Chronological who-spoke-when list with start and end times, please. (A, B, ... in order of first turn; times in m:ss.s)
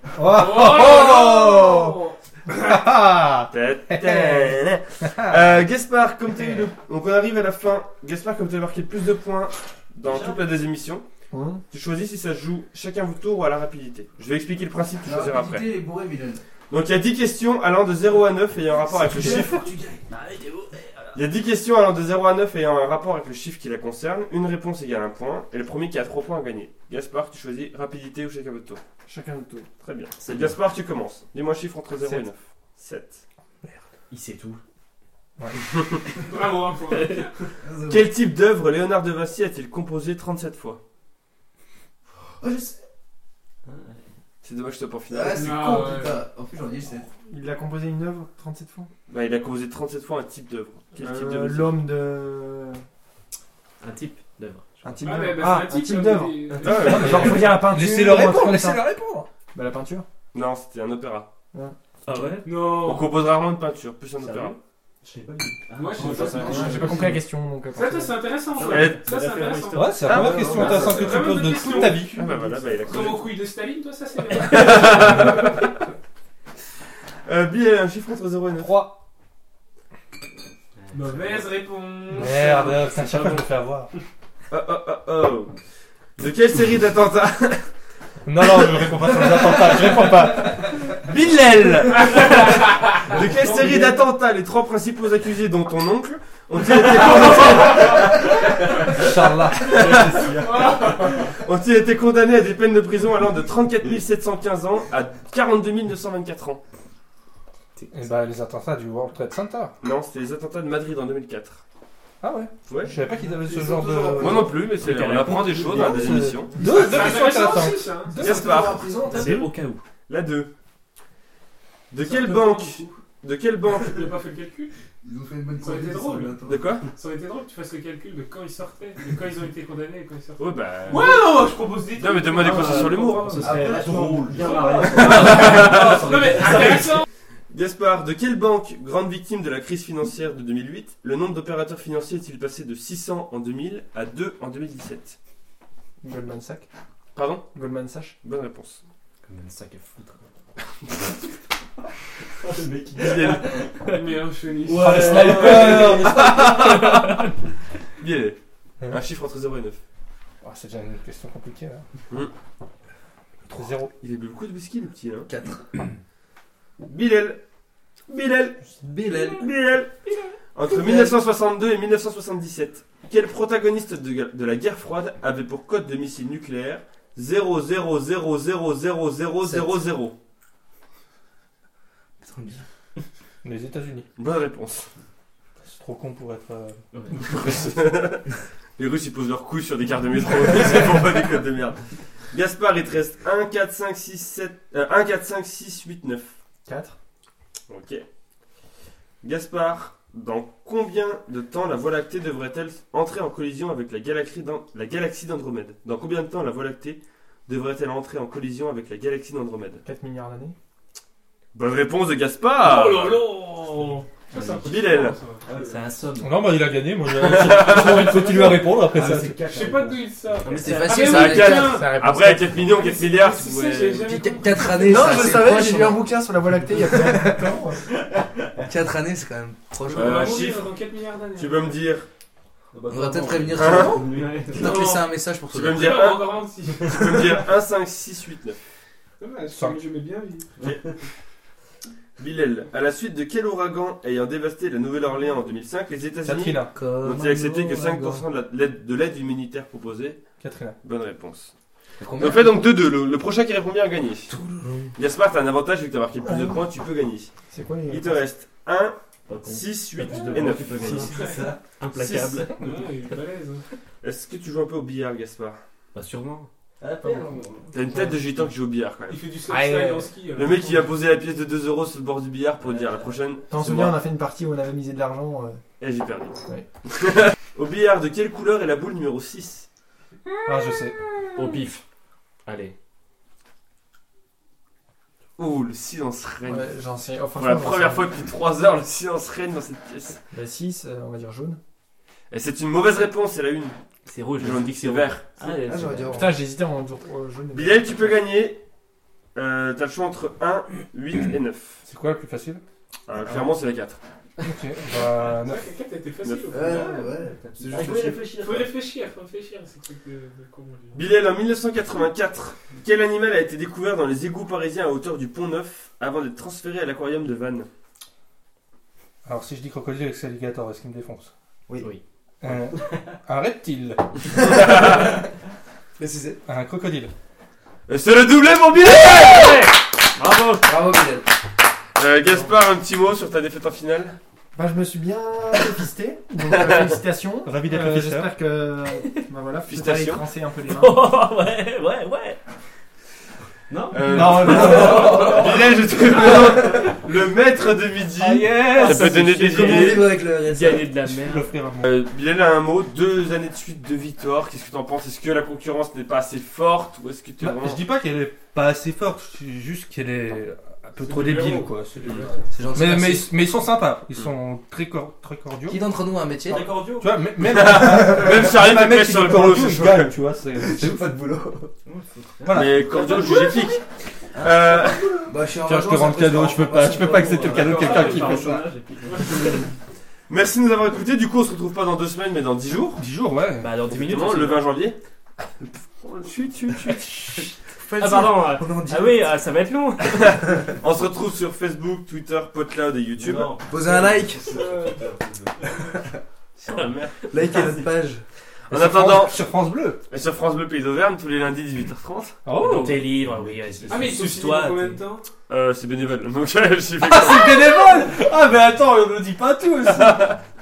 0:00.2-0:02.0 A
0:00.2-0:02.5 B
0:02.5-0:04.5 A
0:03.5-0:11.0 C
0:05.0-0:05.3 A
0:10.0-0:10.4 D
0:11.3-0:11.6 E
0:11.7-0:15.7 C
0:15.0-0:16.4 F
0:16.7-0:19.7 C
0:18.8-0:20.0 F
0:20.1-0:21.0 G
0:21.1-0:28.8 C
0:29.0-0:29.7 E
0:29.8-0:33.2 C
0:30.2-0:30.6 G
0:32.0-0:32.2 E
0:34.1-0:34.6 G
0:35.6-0:36.0 C
0:36.2-0:37.3 B
0:36.9-0:37.3 G
0:37.6-0:38.1 F
0:37.9-0:40.8 C
0:42.4-0:42.8 F
0:43.7-0:44.0 G
0:44.4-0:45.9 C
0:45.1-0:47.1 F
0:45.3-0:46.2 B
0:47.2-0:48.9 E
0:49.1-0:51.8 C
0:50.9-0:52.8 E
0:53.8-0:55.2 G
0:54.8-0:58.8 E
0:55.0-0:57.4 B
0:56.6-0:57.7 C
0:56.8-0:59.3 A
0:59.5-1:00.0 E
1:00.3-1:01.3 C
1:02.0-1:02.5 G
1:02.4-1:03.1 B
1:02.6-1:04.6 C
1:04.2-1:04.6 G
1:05.0-1:07.2 D
1:05.7-1:07.2 B
1:06.1-1:08.3 E
1:06.2-1:06.9 F
1:07.7-1:12.2 B
1:08.5-1:10.9 G
1:08.6-1:09.0 C
1:09.7-1:12.2 A
1:10.0-1:13.3 C
1:10.1-1:10.9 D
1:12.0-1:12.9 E
1:12.8-1:15.5 B
1:14.3-1:15.3 G
1:14.5-1:15.5 C
1:14.9-1:15.5 A
1:17.2-1:18.8 C
1:18.6-1:19.0 A
1:20.8-1:21.5 G
1:20.9-1:23.5 B
1:22.1-1:23.9 A
1:24.5-1:25.5 C
1:26.2-1:27.7 C
1:28.2-1:30.7 A
1:28.4-1:29.7 C
1:30.6-1:38.4 C
1:32.1-1:33.9 B
1:37.3-1:38.0 B
1:38.9-1:39.6 A
1:39.6-1:40.3 C
1:39.6-1:41.3 B
1:39.7-1:41.1 D
1:41.3-1:46.6 C
1:47.9-1:49.7 A
1:49.8-1:51.6 C
1:52.2-1:54.6 A
1:52.7-1:52.9 C
1:53.3-1:54.5 F
1:54.1-1:56.7 C
1:54.7-1:56.2 G
1:55.7-1:58.6 A
1:56.6-1:58.2 B
1:58.2-1:59.5 F
1:58.2-1:58.9 C
1:59.1-1:59.8 G
2:00.1-2:00.5 C
2:01.9-2:04.1 C
2:02.0-2:02.8 B
2:03.8-2:04.7 B
2:05.0-2:06.7 F
2:05.6-2:13.7 B
2:06.5-2:06.8 C
2:10.4-2:13.4 C
2:12.4-2:15.8 G
2:13.4-2:14.2 F
2:13.4-2:17.0 D
2:14.3-2:17.0 B
2:15.1-2:16.0 C
2:17.5-2:25.2 C
2:26.0-2:26.6 E
2:27.1-2:27.5 C
2:27.5-2:28.2 E
2:28.2-2:28.8 C
2:29.2-2:30.2 G
2:32.4-2:33.9 D
2:33.0-2:33.4 C
2:33.9-2:35.7 B
2:34.7-2:36.6 D
2:34.8-2:36.3 A
2:35.3-2:37.2 G
2:35.4-2:37.2 C
2:38.0-2:39.8 C
2:40.4-2:41.8 A
2:43.4-2:43.9 A
2:44.0-2:45.3 C
2:45.3-2:45.6 F
2:46.8-2:47.4 C
2:48.1-3:00.2 C
2:48.8-2:49.4 F
2:50.6-2:51.2 F
2:59.4-2:59.8 F
3:02.2-3:02.6 F
3:03.4-3:04.1 A
3:04.2-3:04.9 C
3:05.6-3:07.6 A
3:07.2-3:08.2 C
3:08.8-3:11.8 C
3:12.3-3:16.4 C
3:16.6-3:17.0 E
3:17.7-3:18.0 C
3:19.2-3:29.8 C
3:29.8-3:30.5 E
3:31.5-3:33.2 C
3:32.6-3:35.4 B
3:34.3-3:34.7 G
3:34.6-3:35.2 C
3:35.4-3:36.1 D
3:35.5-3:36.4 G
3:36.2-3:39.4 A
3:37.1-3:38.2 C
3:37.9-3:38.5 B
3:38.9-3:40.1 D
3:39.5-3:41.9 B
3:40.4-3:41.2 G
3:40.6-3:41.8 F
3:40.9-3:44.2 C
3:41.6-3:42.6 E
3:42.5-3:45.3 B
3:44.0-3:46.1 F
3:44.7-3:47.9 E
3:46.9-3:47.3 F
3:48.6-3:50.4 F
3:49.9-3:51.7 B
3:49.9-3:50.7 C
3:51.3-3:52.1 C
3:52.7-3:54.8 D
3:52.9-3:56.0 F
3:53.5-3:54.1 C
3:54.1-3:57.4 B
3:55.5-3:58.6 C
3:59.2-4:00.5 B
3:59.5-3:59.8 A
4:00.6-4:00.9 D
4:02.2-4:10.2 C
4:06.2-4:06.7 A
4:06.7-4:08.2 F
4:10.4-4:10.8 A
4:10.8-4:11.5 C
4:12.0-4:12.7 F
4:12.2-4:14.3 C
4:14.3-4:14.9 F
4:14.9-4:17.3 C
4:16.2-4:16.6 E
4:17.5-4:18.2 E
4:17.8-4:21.2 C
4:19.3-4:22.9 G
4:20.2-4:21.7 D
4:21.0-4:21.5 B
4:22.0-4:22.3 C
4:22.5-4:23.6 B
4:24.0-4:25.6 C
4:25.9-4:26.5 G
4:26.8-4:28.4 D
4:27.7-4:29.3 C
4:29.1-4:30.6 B
4:29.4-4:30.8 E
4:30.3-4:34.0 C
4:32.7-4:33.1 D
4:33.5-4:35.6 E
4:35.8-4:39.7 C
4:40.4-4:41.0 A
4:41.3-4:41.8 G
4:42.4-4:42.7 G
4:45.4-4:46.7 C
4:46.4-4:48.1 E
4:47.3-4:50.2 C
4:50.3-4:51.6 E
4:52.3-4:53.8 C
4:54.0-4:56.4 G
4:54.4-4:55.2 C
4:55.4-4:56.3 F
4:56.1-4:58.2 E
4:57.5-4:58.6 C
4:59.3-5:01.8 C
5:01.8-5:02.6 A
5:03.1-5:04.0 C
5:04.4-5:05.7 A
5:04.9-5:07.1 B
5:06.2-5:06.7 C
5:06.5-5:08.3 F
5:07.0-5:08.7 D
5:08.2-5:11.1 B
5:10.9-5:17.7 C
5:19.2-5:21.3 A
5:22.4-5:24.1 A
5:24.4-5:25.1 C
5:26.0-5:26.4 F
5:26.4-5:27.1 A
5:27.9-5:29.6 C
5:28.8-5:30.7 G
5:30.6-5:31.3 F
5:32.0-5:34.2 C
5:34.6-5:41.1 E
5:36.4-5:36.9 C
5:37.4-5:38.3 A
5:39.7-5:40.2 C
5:40.6-5:42.4 G
5:43.7-5:46.6 G
5:43.9-5:50.1 C
5:44.1-5:45.3 A
5:44.4-5:45.6 F
5:48.2-5:51.5 G
5:48.6-5:50.9 F
5:51.0-5:51.9 A
5:51.8-5:57.8 C
5:57.4-6:02.2 A
6:01.0-6:02.5 B
6:02.5-6:03.3 F
6:02.7-6:05.9 A
6:05.7-6:06.7 F
6:06.4-6:07.2 D
6:07.0-6:11.1 A
6:07.4-6:10.1 C
6:10.5-6:11.7 F
6:11.8-6:13.6 G
6:12.4-6:13.2 A
6:12.5-6:13.8 C
6:14.4-6:18.6 F
6:14.4-6:15.3 C
6:15.6-6:18.6 A
6:16.8-6:19.6 G
6:19.0-6:19.7 B
6:20.3-6:23.0 C
6:23.0-6:23.8 A
6:23.6-6:24.7 G
6:23.9-6:25.0 C
6:26.0-6:27.6 C
6:27.9-6:29.3 F
6:27.9-6:30.7 G
6:30.1-6:33.5 C
6:33.1-6:36.0 D
6:33.7-6:34.4 F
6:34.4-6:35.1 B
6:36.6-6:37.1 C
6:36.6-6:37.7 G
6:37.3-6:38.2 F
6:38.7-6:39.5 C
6:38.7-6:40.0 A
6:40.1-6:42.4 C
6:42.4-6:43.1 A
6:42.5-6:45.0 G
6:43.1-6:44.3 D
6:43.9-6:45.3 B
6:45.5-6:47.6 C
6:47.0-6:50.3 A
6:49.8-6:50.4 C